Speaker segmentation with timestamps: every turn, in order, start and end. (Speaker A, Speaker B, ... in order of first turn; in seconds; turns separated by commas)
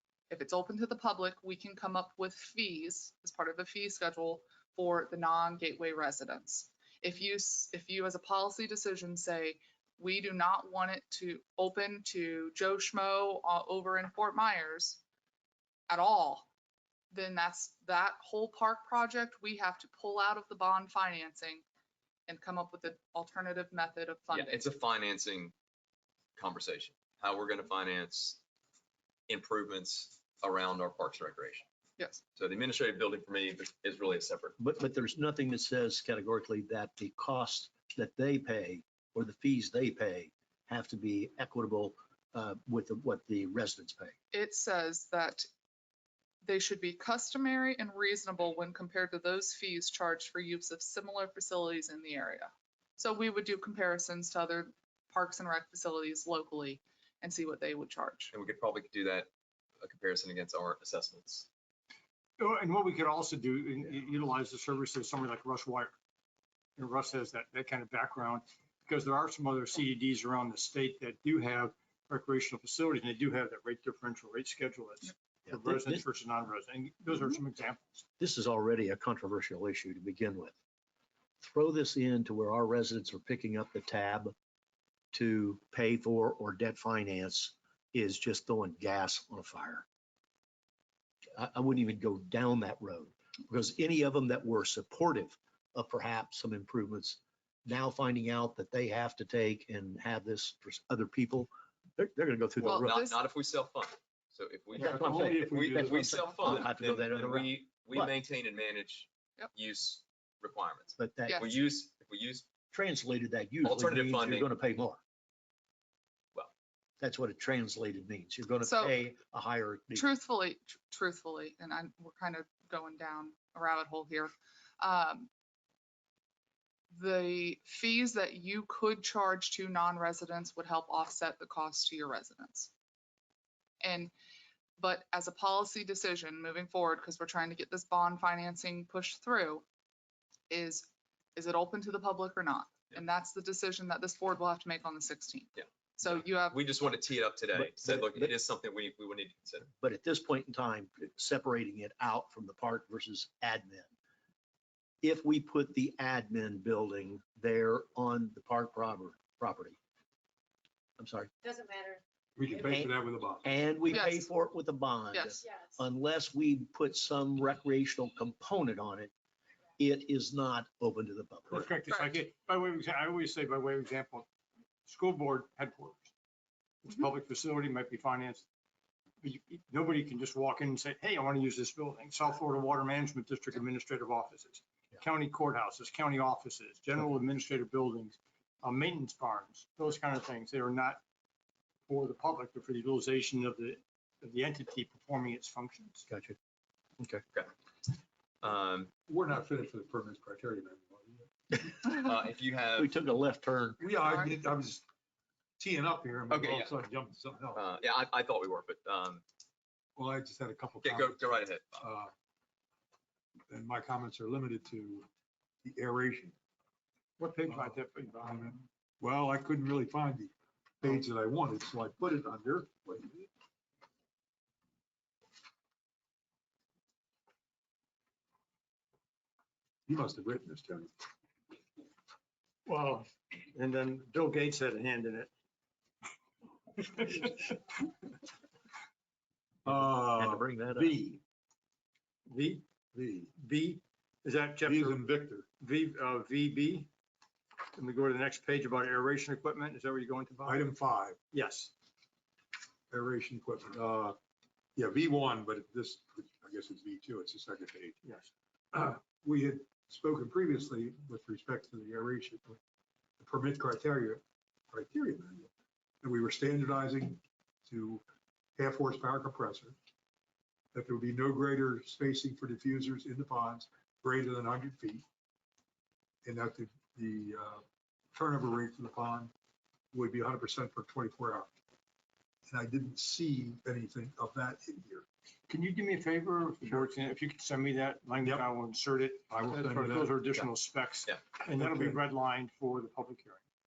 Speaker A: 0.3-15.0, Speaker A: 15.9-16.5, Speaker A: 17.1-21.6, Speaker A: 22.3-24.7, Speaker B: 24.3-25.5, Speaker B: 26.4-28.4, Speaker B: 29.3-31.6, Speaker B: 32.4-34.6, Speaker C: 34.6-44.2, Speaker A: 44.3-45.5, Speaker A: 46.4-58.3, Speaker B: 58.3-59.3, Speaker B: 59.8-61.5, Speaker D: 62.4-65.9, Speaker D: 66.8-78.1, Speaker C: 75.5-76.0, Speaker C: 78.2-80.5, Speaker C: 81.4-84.3, Speaker C: 85.1-89.8, Speaker C: 91.4-103.0, Speaker A: 102.6-103.2, Speaker B: 102.6-112.5, Speaker E: 104.7-107.1, Speaker C: 104.8-108.1, Speaker C: 111.0-111.6, Speaker A: 111.3-111.5, Speaker C: 112.7-115.0, Speaker B: 113.6-114.5, Speaker C: 117.0-120.1, Speaker A: 118.6-119.0, Speaker A: 120.0-125.3, Speaker A: 126.9-132.7, Speaker A: 133.8-134.1, Speaker A: 134.8-139.7, Speaker A: 140.5-146.6, Speaker B: 146.4-149.7, Speaker C: 147.6-148.3, Speaker C: 149.7-153.9, Speaker C: 155.0-159.8, Speaker C: 161.0-161.3, Speaker E: 162.4-163.6, Speaker C: 163.4-169.1, Speaker A: 163.9-164.3, Speaker A: 165.1-165.4, Speaker C: 169.8-171.7, Speaker D: 171.5-174.3, Speaker D: 174.9-176.1, Speaker D: 176.8-178.5, Speaker D: 179.2-191.0, Speaker D: 191.9-196.1, Speaker C: 196.1-196.4, Speaker B: 198.4-198.9, Speaker E: 199.1-201.6, Speaker B: 201.8-202.9, Speaker C: 202.8-203.8, Speaker E: 203.8-204.8, Speaker E: 205.6-207.7, Speaker B: 206.3-206.7, Speaker B: 207.5-209.2, Speaker E: 210.0-212.1, Speaker B: 210.8-211.8, Speaker E: 213.5-215.1, Speaker E: 215.6-216.3, Speaker D: 217.2-218.7, Speaker E: 217.5-223.3, Speaker E: 229.9-230.9, Speaker D: 232.7-235.3, Speaker D: 236.8-237.6, Speaker C: 239.7-241.0, Speaker E: 239.7-241.2, Speaker D: 242.3-242.7, Speaker E: 242.9-243.3, Speaker D: 243.4-245.1, Speaker E: 244.6-245.5, Speaker D: 245.6-246.9, Speaker D: 247.7-250.7, Speaker E: 250.4-251.2, Speaker D: 251.3-251.7, Speaker E: 252.9-254.2, Speaker E: 254.8-258.0, Speaker D: 258.0-258.3, Speaker E: 258.7-262.6, Speaker E: 263.2-265.5, Speaker E: 266.0-268.0, Speaker E: 268.6-269.8, Speaker E: 270.7-275.0, Speaker E: 276.2-277.6, Speaker E: 278.1-279.3, Speaker E: 279.9-281.5, Speaker E: 282.5-285.1, Speaker D: 285.5-293.4, Speaker E: 286.6-286.9, Speaker E: 288.2-288.5, Speaker E: 289.3-290.4, Speaker E: 291.5-292.0